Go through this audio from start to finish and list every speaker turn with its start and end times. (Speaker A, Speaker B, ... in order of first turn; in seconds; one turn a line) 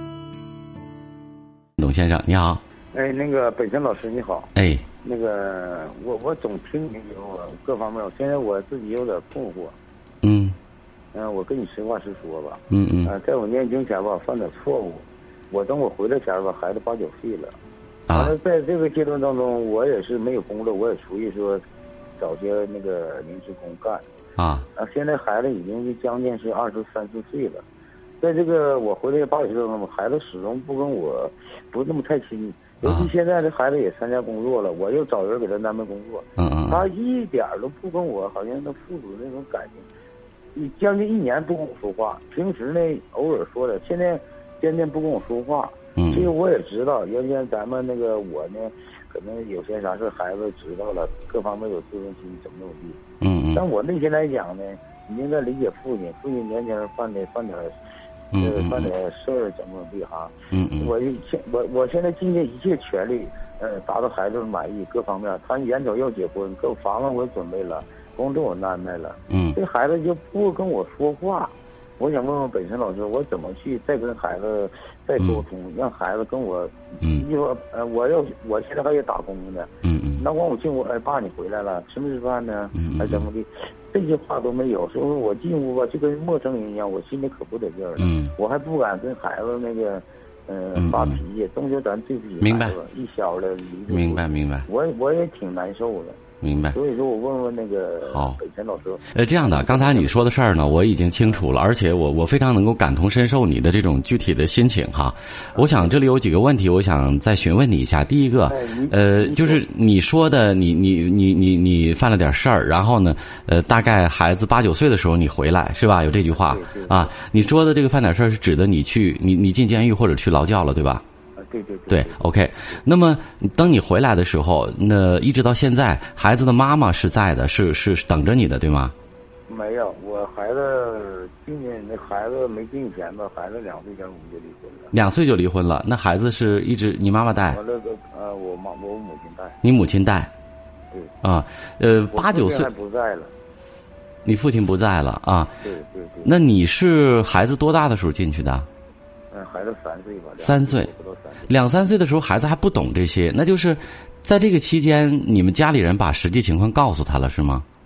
Speaker A: 1.8-2.6
Speaker B: 2.9-9.8
Speaker A: 4.5-4.8
Speaker A: 10.2-10.6
Speaker B: 11.1-17.6
Speaker A: 12.7-13.1
Speaker A: 18.1-18.3
Speaker B: 18.1-21.6
Speaker B: 22.2-24.1
Speaker A: 24.4-24.7
Speaker B: 24.8-27.6
Speaker B: 28.2-39.9
Speaker A: 32.8-33.1
Speaker A: 36.4-36.9
Speaker B: 40.5-53.0
Speaker A: 46.0-46.3
Speaker A: 53.2-53.6
Speaker B: 53.5-57.8
Speaker A: 58.3-58.9
Speaker B: 58.4-96.2
Speaker A: 60.5-60.9
Speaker A: 69.3-69.6
Speaker A: 79.8-80.2
Speaker A: 82.7-83.2
Speaker A: 88.0-88.3
Speaker A: 90.8-91.2
Speaker A: 92.4-92.8
Speaker A: 93.9-94.7
Speaker A: 96.4-96.8
Speaker B: 96.7-100.4
Speaker A: 98.1-98.4
Speaker A: 99.1-121.0
Speaker B: 105.5-106.0
Speaker B: 108.5-109.6
Speaker B: 116.2-117.3
Speaker B: 121.4-122.8
Speaker A: 121.9-128.9
Speaker B: 129.5-134.9
Speaker A: 134.9-137.6
Speaker B: 137.5-139.6
Speaker A: 139.6-140.3
Speaker A: 141.2-142.7
Speaker B: 142.1-143.3
Speaker A: 144.2-145.6
Speaker B: 145.6-146.3
Speaker A: 146.2-148.7
Speaker B: 149.3-151.6
Speaker A: 150.4-150.9
Speaker A: 151.5-157.7